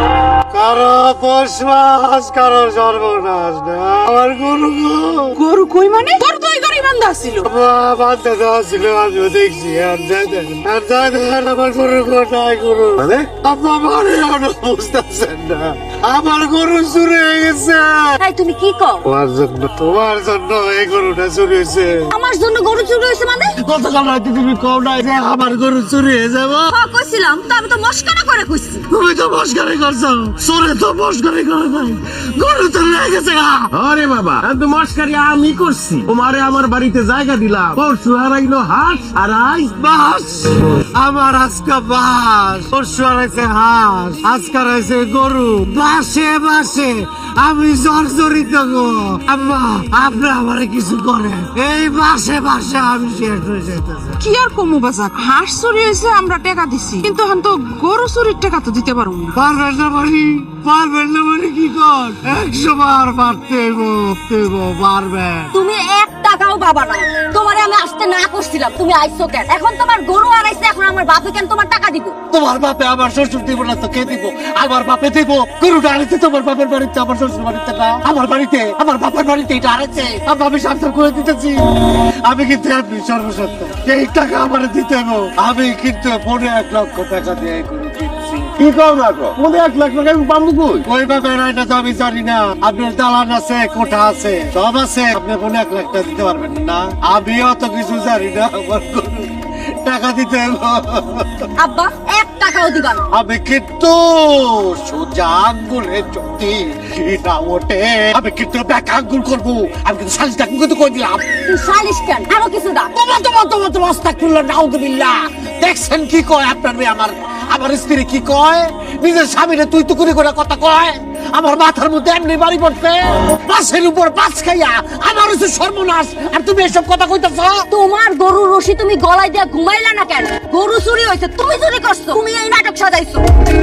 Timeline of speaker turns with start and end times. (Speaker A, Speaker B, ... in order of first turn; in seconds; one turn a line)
Speaker A: 0.5-5.3
Speaker B: 5.3-7.4
Speaker A: 7.4-18.1
Speaker C: 18.2-19.1
Speaker A: 19.0-22.1
Speaker C: 22.1-23.6
Speaker A: 23.6-26.7
Speaker C: 26.7-28.9
Speaker A: 28.9-33.7
Speaker D: 33.7-39.9
Speaker A: 39.5-54.2
Speaker B: 54.2-59.4
Speaker A: 59.3-65.5
Speaker C: 65.5-72.2
Speaker A: 72.3-81.6
Speaker A: 82.2-89.4
Speaker D: 88.7-90.8
Speaker A: 90.7-99.3
Speaker A: 99.8-101.4
Speaker C: 101.6-103.0
Speaker A: 103.1-111.2
Speaker C: 111.5-112.9
Speaker A: 112.9-127.7
Speaker C: 127.7-133.2